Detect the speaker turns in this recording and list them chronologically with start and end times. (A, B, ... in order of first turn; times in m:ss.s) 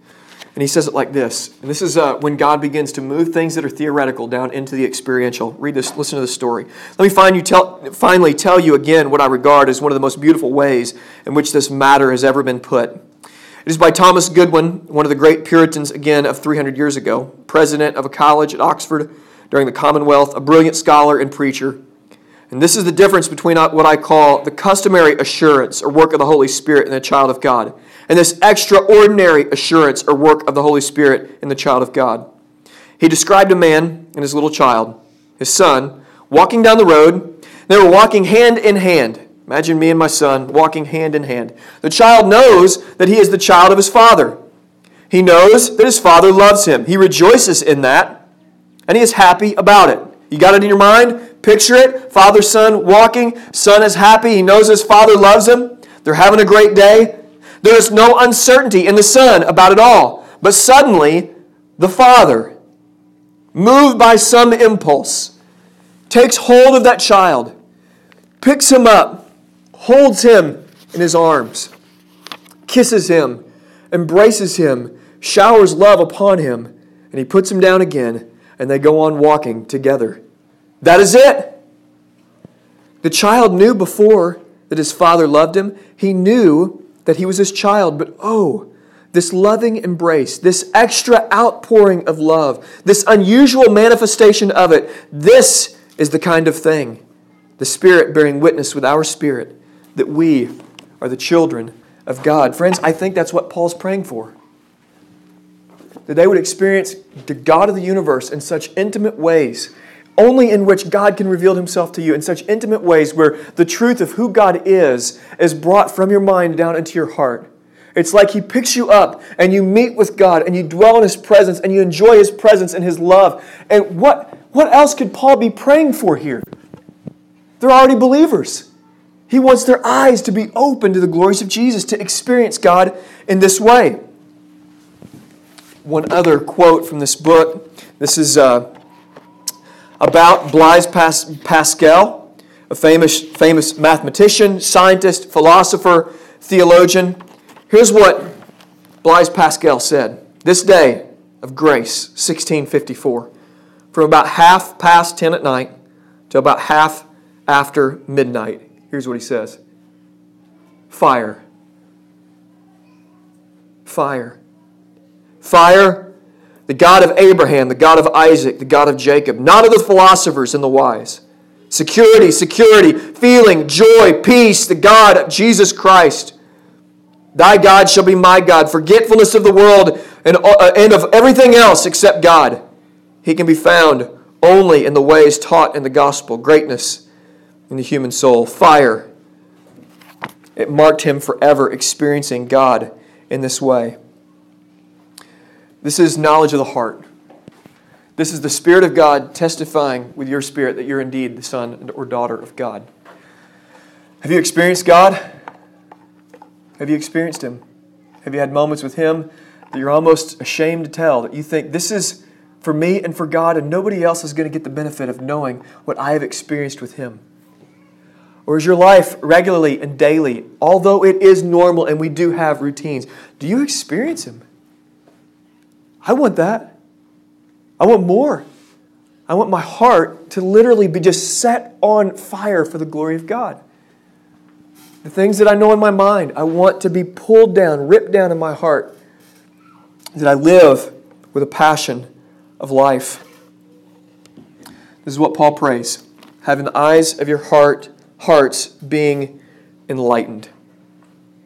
0:00.6-0:13.0 A
0:13.7-0:21.8 A
0:22.5-0:32.3 A
0:33.0-0:44.4 A
0:45.1-0:48.2 A
0:48.9-1:02.5 A
1:03.5-1:05.3 A
1:06.1-1:07.5 A
1:08.4-1:11.7 A
1:12.7-1:20.2 A
1:20.8-1:21.6 A
1:23.0-1:37.0 A
1:37.6-1:44.4 A
1:46.1-2:06.4 A
2:07.6-2:08.7 A
2:09.3-2:14.0 A
2:15.8-2:18.7 A
2:20.0-2:28.3 A
2:29.0-2:33.3 A
2:33.9-2:35.7 A
2:36.3-2:39.6 A
2:40.9-2:41.4 A
2:43.8-2:44.4 A
2:45.4-2:46.1 A
2:46.7-2:56.3 A
2:57.3-3:02.6 A
3:03.2-3:07.0 A
3:07.7-3:09.1 A
3:10.6-3:14.0 A
3:15.8-3:17.0 A
3:18.2-3:22.8 A
3:24.2-3:25.2 A
3:26.8-3:27.6 A
3:28.2-3:37.2 A
3:38.5-3:44.4 A
3:46.0-3:46.8 A
3:47.8-3:48.5 A
3:49.3-3:53.6 A
3:55.0-3:58.9 A
4:00.2-4:02.1 A
4:02.6-4:03.2 A
4:05.0-4:09.4 A
4:09.9-4:10.5 A